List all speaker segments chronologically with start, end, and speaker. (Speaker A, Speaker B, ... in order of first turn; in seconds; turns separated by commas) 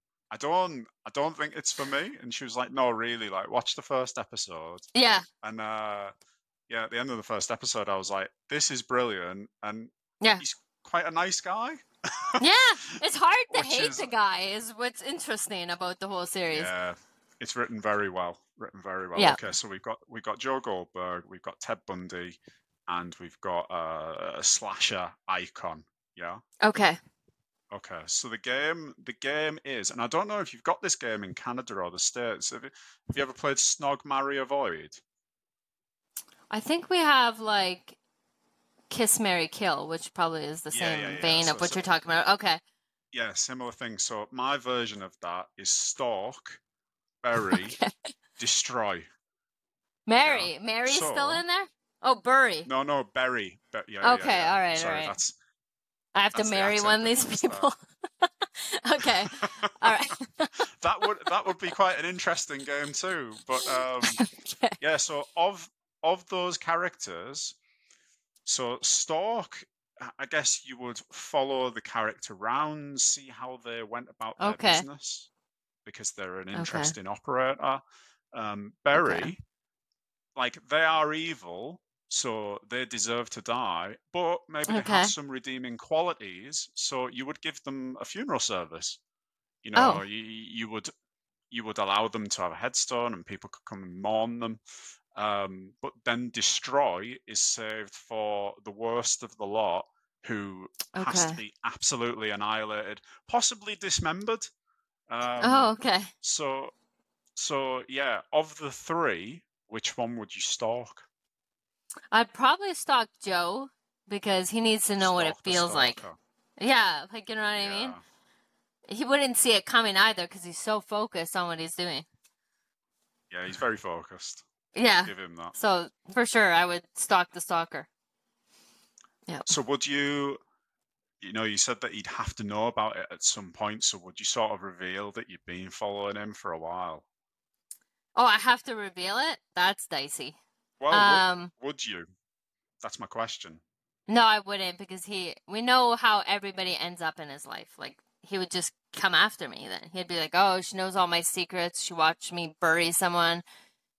Speaker A: 0.3-4.9, Speaker B: 4.9-5.3, Speaker A: 5.4-6.1, Speaker A: 6.7-12.4, Speaker B: 12.4-16.7, Speaker A: 13.5-14.1, Speaker A: 16.5-26.4, Speaker B: 26.6-27.0, Speaker A: 27.7-35.0, Speaker B: 36.5-38.0, Speaker B: 38.9-42.6, Speaker A: 40.7-41.9, Speaker A: 43.1-46.6, Speaker A: 47.2-47.8, Speaker B: 47.4-48.1, Speaker A: 48.4-49.1, Speaker B: 50.1-52.7, Speaker A: 50.2-51.4, Speaker A: 52.7-55.4, Speaker B: 54.0-55.1, Speaker B: 56.1-60.5, Speaker A: 56.3-57.7, Speaker A: 59.0-59.9, Speaker A: 60.5-64.3, Speaker B: 63.6-64.8, Speaker A: 64.8-67.6, Speaker A: 68.5-75.3, Speaker B: 74.4-74.9, Speaker A: 75.8-77.8, Speaker B: 76.5-77.0, Speaker A: 78.3-79.4, Speaker B: 78.9-79.3, Speaker A: 80.4-89.0, Speaker B: 84.7-85.1, Speaker A: 89.6-90.9, Speaker B: 89.8-90.0, Speaker A: 91.5-94.6, Speaker A: 95.2-104.5, Speaker B: 100.9-101.4, Speaker A: 105.1-106.7, Speaker B: 105.4-106.1, Speaker A: 107.4-111.1, Speaker B: 112.1-116.0, Speaker A: 115.0-116.2, Speaker B: 116.6-118.0, Speaker A: 117.6-118.0, Speaker B: 118.9-122.1, Speaker A: 123.3-124.4, Speaker B: 124.8-127.9, Speaker A: 125.0-125.5, Speaker A: 129.5-130.4, Speaker A: 131.2-137.0, Speaker B: 138.2-140.4, Speaker A: 140.8-142.1, Speaker B: 140.9-141.5, Speaker A: 142.8-143.6, Speaker B: 144.1-153.4